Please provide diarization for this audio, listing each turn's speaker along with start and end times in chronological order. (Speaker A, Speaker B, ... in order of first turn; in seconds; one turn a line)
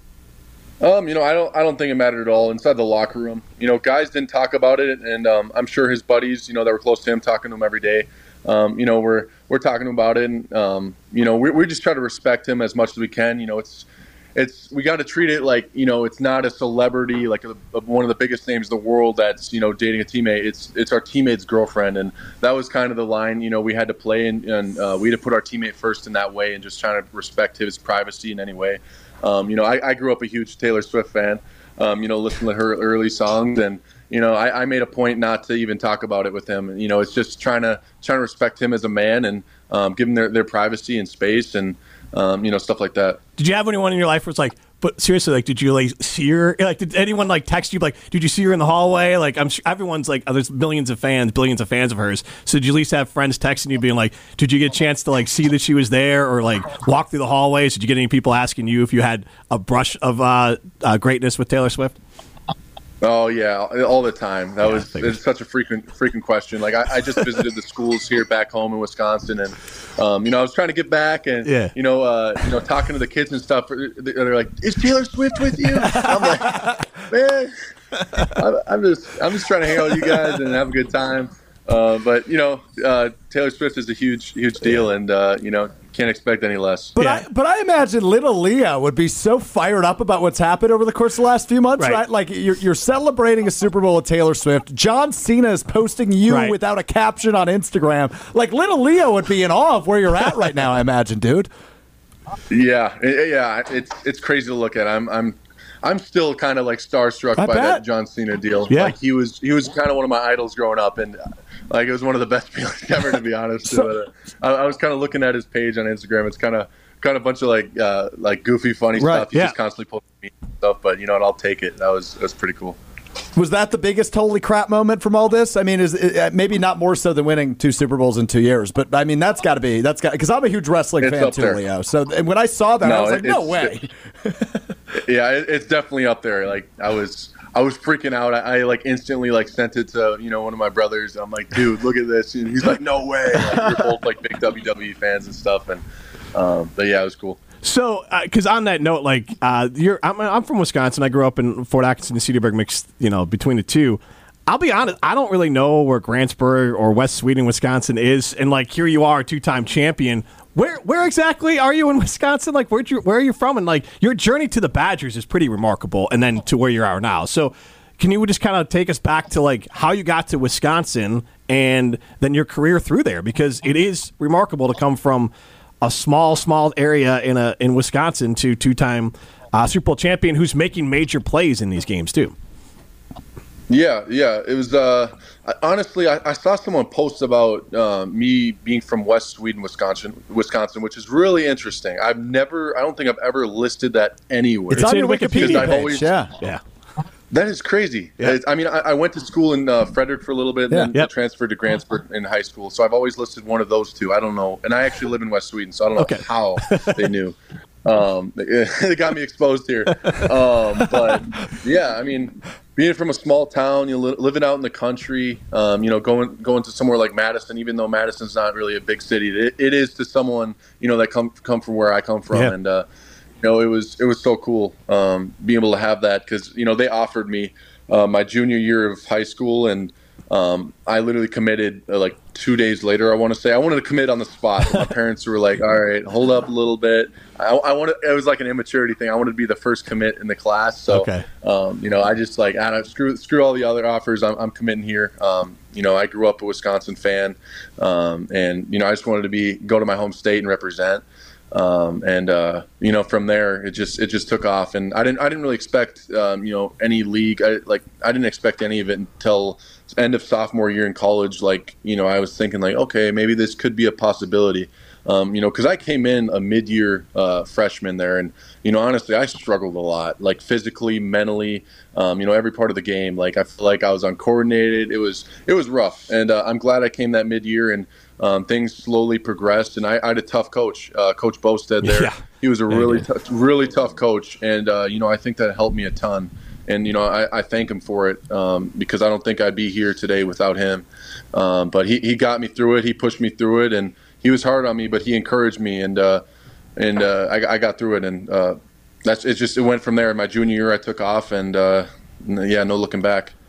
Speaker A: 0.8-43.2
Speaker B: 43.4-62.0
Speaker A: 63.0-77.5
Speaker B: 64.6-65.1
Speaker B: 71.4-71.7
Speaker A: 78.2-87.0
Speaker C: 87.0-101.5
Speaker B: 87.0-87.2
Speaker B: 96.3-96.5
Speaker A: 102.5-111.2
Speaker C: 107.3-107.8
Speaker B: 108.7-108.9
Speaker A: 111.7-122.8
Speaker C: 113.7-113.9
Speaker B: 119.0-119.5
Speaker C: 123.3-134.4
Speaker A: 131.0-131.6
Speaker A: 132.8-133.7
Speaker A: 135.0-145.8
Speaker A: 146.3-147.4
Speaker B: 147.6-175.3
Speaker B: 175.8-182.3
Speaker A: 183.7-196.1
Speaker C: 194.7-196.3
Speaker B: 194.7-196.6
Speaker A: 197.3-222.8
Speaker B: 206.0-207.0
Speaker A: 223.4-296.2
Speaker B: 240.9-241.2
Speaker B: 281.8-282.2
Speaker B: 282.7-283.0
Speaker A: 296.8-303.3